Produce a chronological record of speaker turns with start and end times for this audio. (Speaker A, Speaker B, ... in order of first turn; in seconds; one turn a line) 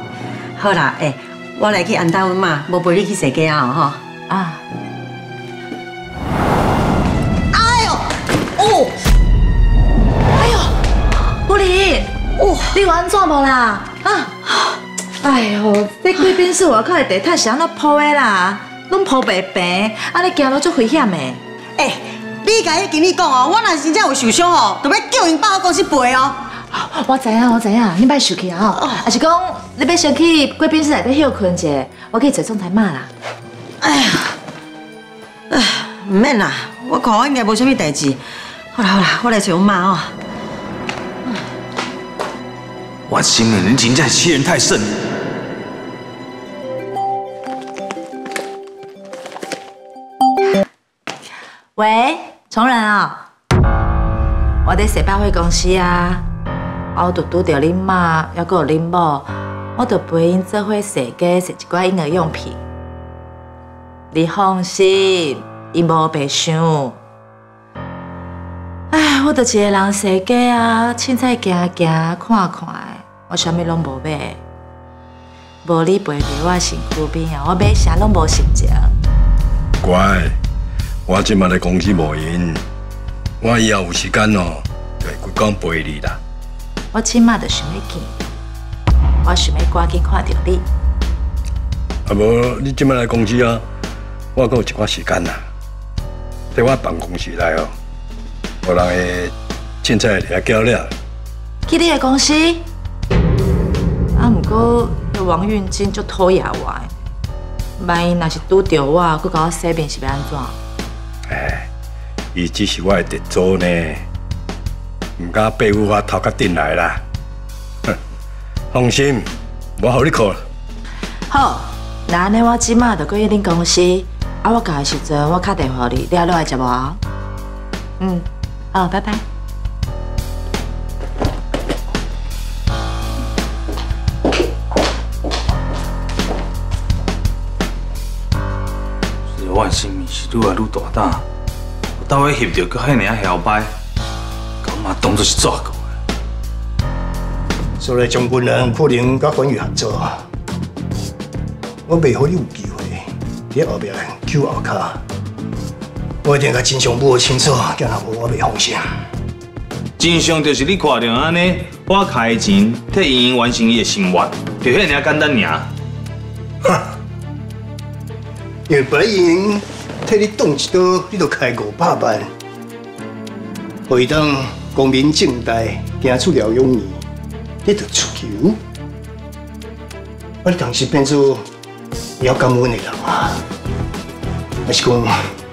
Speaker A: 0.6-4.0
Speaker B: 4.3-4.6
Speaker A: 7.5-8.1
Speaker B: 8.6-8.9
Speaker B: 10.3-10.7
Speaker B: 11.4-12.1
Speaker A: 12.4-12.8
Speaker B: 12.7-14.3
Speaker B: 15.2-21.4
Speaker A: 21.8-26.4
Speaker B: 26.6-33.1
Speaker A: 33.8-34.3
Speaker A: 35.5-38.2
Speaker A: 38.7-40.1
Speaker C: 43.1-45.0
Speaker B: 51.8-53.3
Speaker B: 54.6-56.2
Speaker B: 56.9-62.6
Speaker B: 64.1-67.0
Speaker B: 68.9-74.4
Speaker B: 75.6-78.9
Speaker D: 79.8-80.3
Speaker D: 81.1-82.6
Speaker D: 83.4-86.2
Speaker B: 86.9-88.2
Speaker B: 89.2-90.6
Speaker D: 92.0-93.6
Speaker D: 94.3-95.4
Speaker D: 96.5-97.7
Speaker D: 98.6-100.9
Speaker B: 101.7-102.7
Speaker B: 104.1-106.9
Speaker B: 107.8-110.5
Speaker D: 111.3-111.7
Speaker D: 112.3-114.1
Speaker D: 115.2-117.0
Speaker D: 118.7-120.4
Speaker B: 121.3-127.0
Speaker B: 128.0-129.2
Speaker C: 139.3-141.2
Speaker C: 142.0-143.7
Speaker C: 144.6-145.9
Speaker E: 147.8-150.2
Speaker E: 151.9-155.0
Speaker E: 156.2-158.8
Speaker C: 160.0-165.7
Speaker E: 168.7-172.3
Speaker E: 173.9-177.0
Speaker E: 177.6-178.6
Speaker E: 180.4-181.4
Speaker E: 182.2-183.4
Speaker E: 184.7-185.1